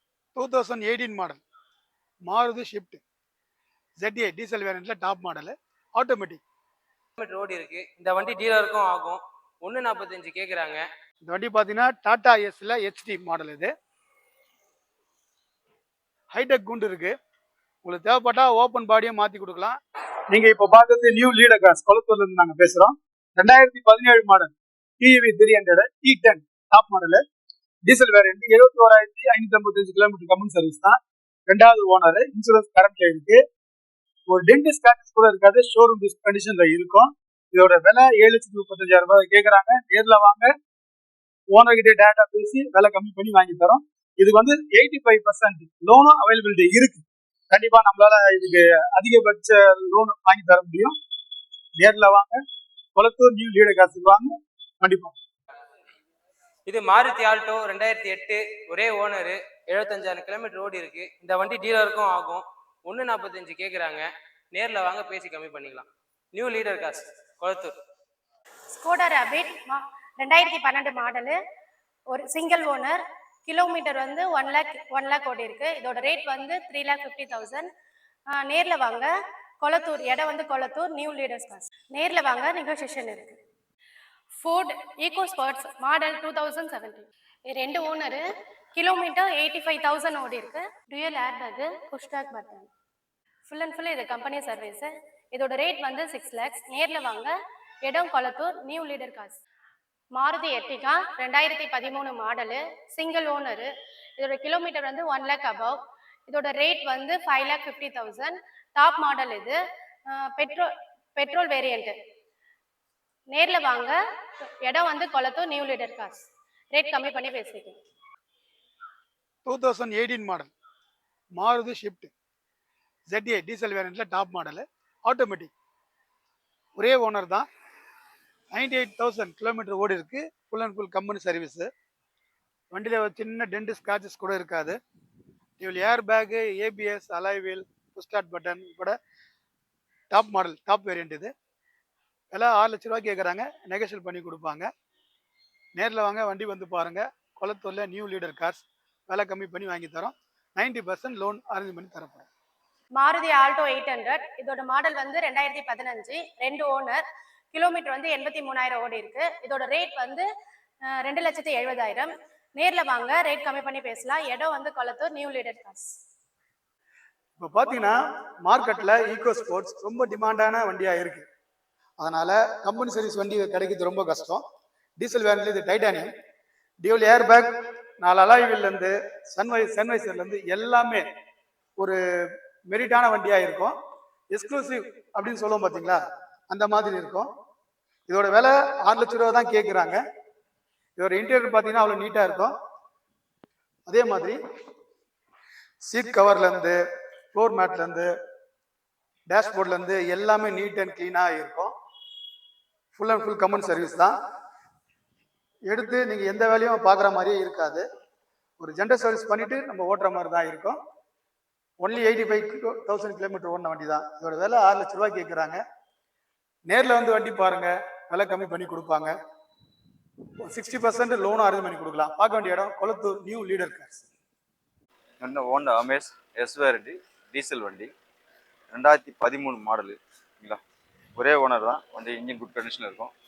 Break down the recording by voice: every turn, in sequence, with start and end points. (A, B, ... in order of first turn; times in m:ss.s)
0:00.4-0:01.4 A
0:02.3-0:03.0 A
0:04.0-0:06.4 A
0:07.2-0:10.8 B
0:11.2-0:13.7 A
0:16.3-0:17.1 A
0:17.8-0:19.8 A
0:20.3-0:27.2 A
0:27.8-0:33.4 A
0:34.3-0:40.5 A
0:41.5-0:51.0 A
0:51.8-0:52.4 A
0:52.9-0:55.2 A
0:56.7-1:07.7 B
1:08.7-1:11.4 C
1:12.1-1:17.7 C
1:18.3-1:23.4 C
1:24.4-1:28.2 C
1:28.7-1:32.7 C
1:33.4-1:37.3 C
1:37.8-1:39.4 C
1:40.1-1:51.9 C
1:53.3-1:54.0 C
1:54.6-1:57.8 C
1:59.4-2:00.5 A
2:01.4-2:02.1 A
2:03.1-2:05.5 A
2:06.8-2:07.4 A
2:08.5-2:11.7 A
2:12.7-2:14.8 A
2:15.6-2:18.9 A
2:20.1-2:21.3 A
2:22.3-2:24.7 A
2:25.8-2:32.3 A
2:33.0-2:40.2 C
2:41.0-2:45.9 C
2:47.4-2:48.0 A
2:48.5-2:51.2 A
2:52.0-2:54.4 A
2:55.0-2:56.1 A
2:56.8-3:01.0 A
3:02.7-3:03.7 A
3:04.3-3:07.3 A
3:08.1-3:10.0 A
3:11.0-3:12.5 A
3:13.8-3:14.4 A
3:15.8-3:16.8 A
3:17.3-3:18.1 A
3:19.3-3:21.7 A
3:22.9-3:24.1 A
3:25.7-3:27.8 A
3:28.6-3:30.8 A
3:31.8-3:35.6 A
3:36.7-3:39.1 A
3:40.4-3:44.0 A
3:45.2-3:47.9 D
3:48.7-3:50.6 D
3:51.2-3:53.1 D